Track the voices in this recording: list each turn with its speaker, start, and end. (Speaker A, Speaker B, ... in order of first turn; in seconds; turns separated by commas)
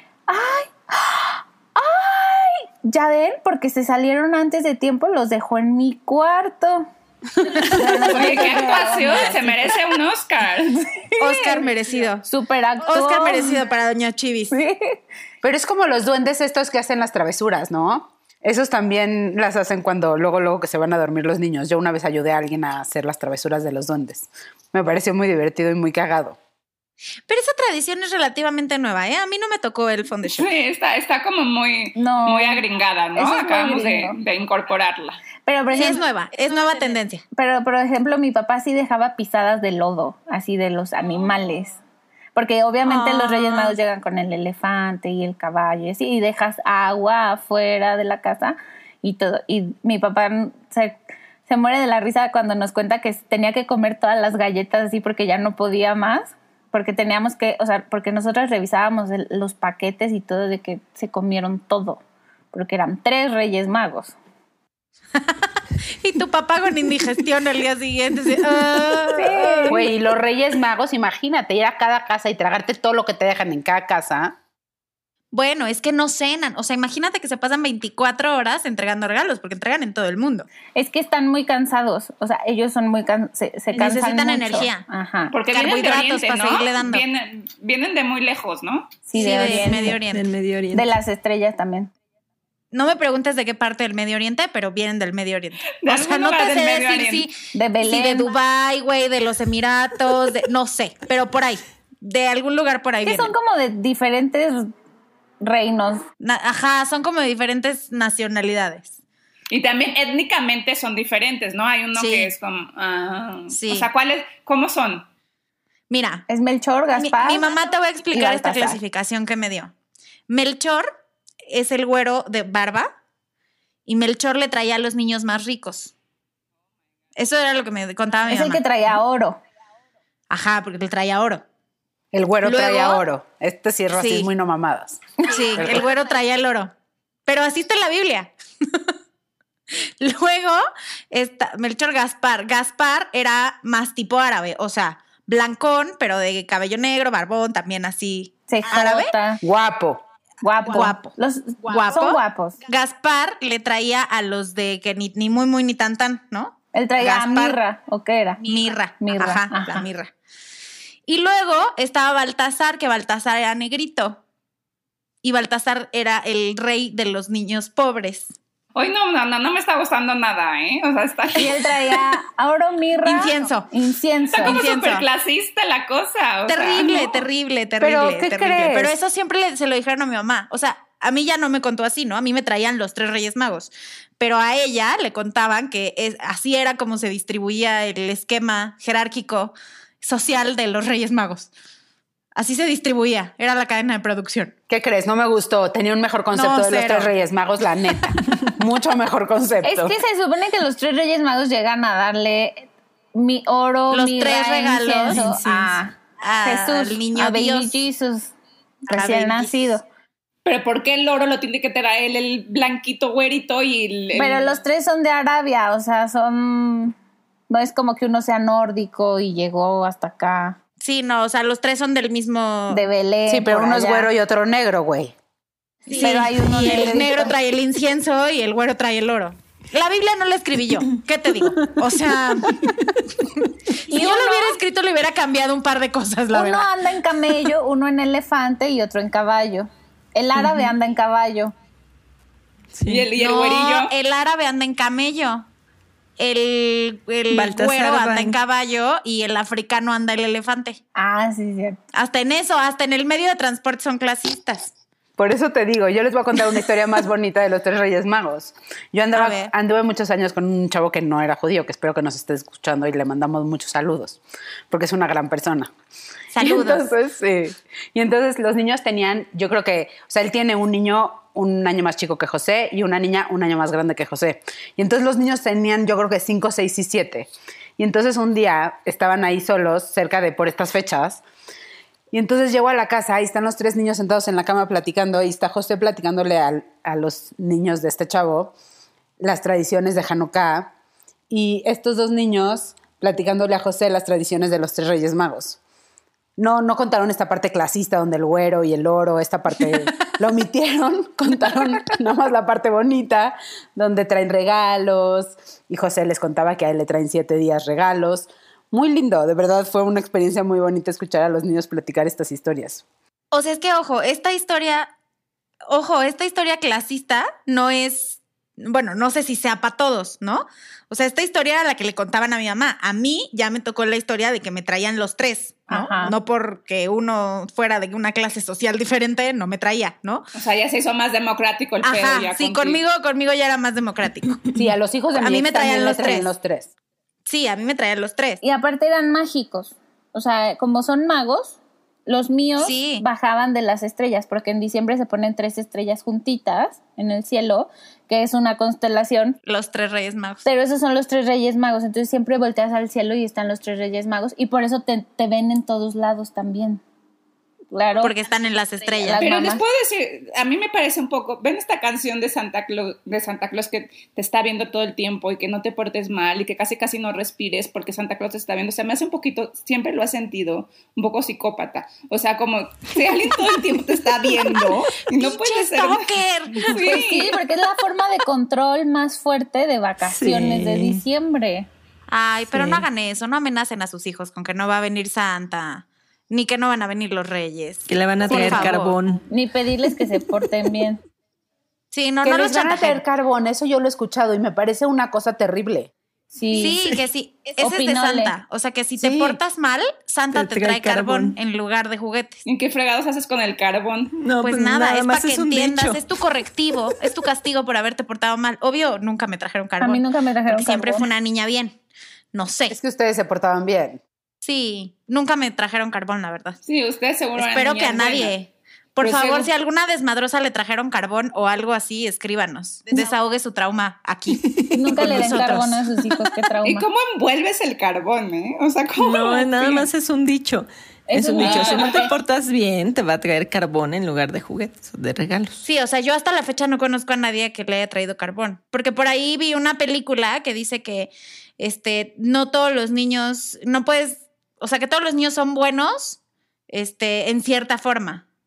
Speaker A: 0.3-6.9, Speaker A: 7.6-9.7, Speaker B: 8.0-10.9, Speaker A: 11.0-11.6, Speaker C: 11.2-12.2, Speaker A: 12.2-13.7, Speaker C: 12.9-14.6, Speaker A: 14.5-15.0, Speaker D: 15.4-26.4, Speaker C: 27.3-30.5, Speaker B: 30.3-35.2, Speaker A: 31.9-32.6, Speaker A: 33.1-34.2, Speaker A: 35.4-36.0, Speaker C: 35.7-37.2, Speaker A: 37.4-41.8, Speaker A: 42.3-62.0, Speaker C: 42.9-43.8, Speaker A: 62.5-64.2, Speaker C: 65.2-69.8, Speaker A: 69.1-69.9, Speaker D: 69.7-74.3, Speaker C: 75.3-80.5, Speaker A: 80.7-85.3, Speaker C: 83.7-84.8, Speaker B: 85.3-89.0, Speaker C: 85.5-87.0, Speaker A: 89.1-90.0, Speaker C: 89.1-90.3, Speaker E: 89.4-90.9, Speaker A: 90.7-91.9, Speaker C: 92.7-103.3, Speaker B: 95.8-97.3, Speaker A: 97.5-98.3, Speaker A: 103.0-104.7, Speaker A: 105.4-106.1, Speaker C: 106.2-108.9, Speaker B: 109.5-115.0, Speaker C: 111.9-112.3, Speaker C: 113.5-113.9, Speaker C: 115.9-116.2, Speaker A: 116.3-117.5, Speaker C: 117.0-119.7, Speaker A: 118.1-118.8, Speaker C: 120.3-120.9, Speaker C: 121.4-122.9, Speaker C: 123.8-125.9, Speaker C: 127.2-128.8, Speaker A: 128.3-129.4, Speaker C: 130.3-131.4, Speaker D: 132.1-135.8, Speaker C: 132.4-133.0, Speaker C: 133.9-134.3, Speaker C: 135.2-136.7, Speaker C: 137.3-138.9, Speaker C: 139.9-149.1, Speaker A: 148.5-149.4, Speaker D: 149.4-150.0, Speaker A: 150.4-152.6, Speaker C: 150.6-157.6, Speaker A: 156.7-159.8, Speaker C: 158.4-160.1, Speaker C: 161.1-164.2, Speaker C: 165.2-168.3, Speaker B: 168.7-172.0, Speaker A: 171.4-174.6, Speaker C: 173.0-173.7, Speaker B: 174.3-177.2, Speaker C: 174.4-175.0, Speaker C: 176.5-191.5, Speaker D: 177.8-179.0, Speaker C: 192.3-194.5, Speaker D: 194.7-199.9, Speaker C: 196.3-197.1, Speaker A: 199.6-208.3, Speaker C: 203.9-207.8, Speaker E: 205.1-205.4, Speaker A: 208.9-209.8, Speaker C: 208.9-209.5, Speaker B: 210.4-214.5, Speaker A: 214.1-216.9, Speaker A: 217.5-220.6, Speaker C: 220.8-222.8, Speaker A: 222.7-224.1, Speaker D: 223.3-225.1, Speaker C: 225.9-232.7, Speaker A: 226.0-227.3, Speaker A: 233.9-234.6, Speaker C: 233.9-236.7, Speaker A: 236.3-241.5, Speaker E: 240.4-240.7, Speaker E: 242.7-243.1, Speaker B: 242.8-243.9, Speaker C: 243.1-245.5, Speaker C: 246.2-250.8, Speaker E: 247.3-248.4, Speaker A: 250.9-251.8, Speaker C: 251.9-254.7, Speaker D: 255.2-265.7, Speaker C: 259.1-259.5, Speaker C: 266.3-266.8, Speaker D: 266.4-281.2, Speaker D: 282.1-288.5, Speaker D: 289.2-290.7, Speaker D: 291.3-295.6, Speaker D: 296.4-312.8, Speaker C: 313.3-314.9, Speaker C: 315.7-330.2, Speaker A: 325.7-326.1, Speaker B: 330.3-332.8, Speaker C: 331.8-334.4, Speaker D: 334.5-336.7, Speaker C: 335.1-336.3, Speaker C: 337.2-338.4, Speaker A: 338.4-349.4, Speaker C: 342.6-343.0, Speaker C: 349.5-350.4, Speaker A: 350.4-356.8, Speaker A: 357.7-358.2, Speaker C: 358.0-359.3, Speaker A: 359.0-359.6, Speaker B: 359.2-377.4, Speaker C: 375.1-377.1, Speaker A: 376.8-381.7, Speaker E: 380.0-381.0, Speaker C: 382.1-389.0, Speaker E: 382.5-382.8, Speaker E: 387.9-389.2, Speaker A: 388.3-388.7, Speaker A: 389.3-391.0, Speaker C: 391.9-393.0, Speaker D: 392.2-395.9, Speaker A: 396.3-396.8, Speaker C: 396.5-402.4, Speaker A: 397.6-398.3, Speaker D: 399.0-399.4, Speaker E: 400.3-401.4, Speaker B: 402.4-404.1, Speaker E: 404.1-406.0, Speaker C: 404.4-411.8, Speaker A: 409.8-411.1, Speaker C: 412.3-412.8, Speaker D: 412.7-414.0, Speaker C: 414.4-416.6, Speaker B: 416.6-418.3, Speaker C: 417.4-425.8, Speaker B: 419.0-419.5, Speaker E: 424.3-425.7, Speaker A: 424.7-426.9, Speaker B: 426.6-429.9, Speaker E: 429.0-435.6, Speaker A: 431.1-432.1, Speaker B: 431.4-432.1, Speaker C: 435.6-448.2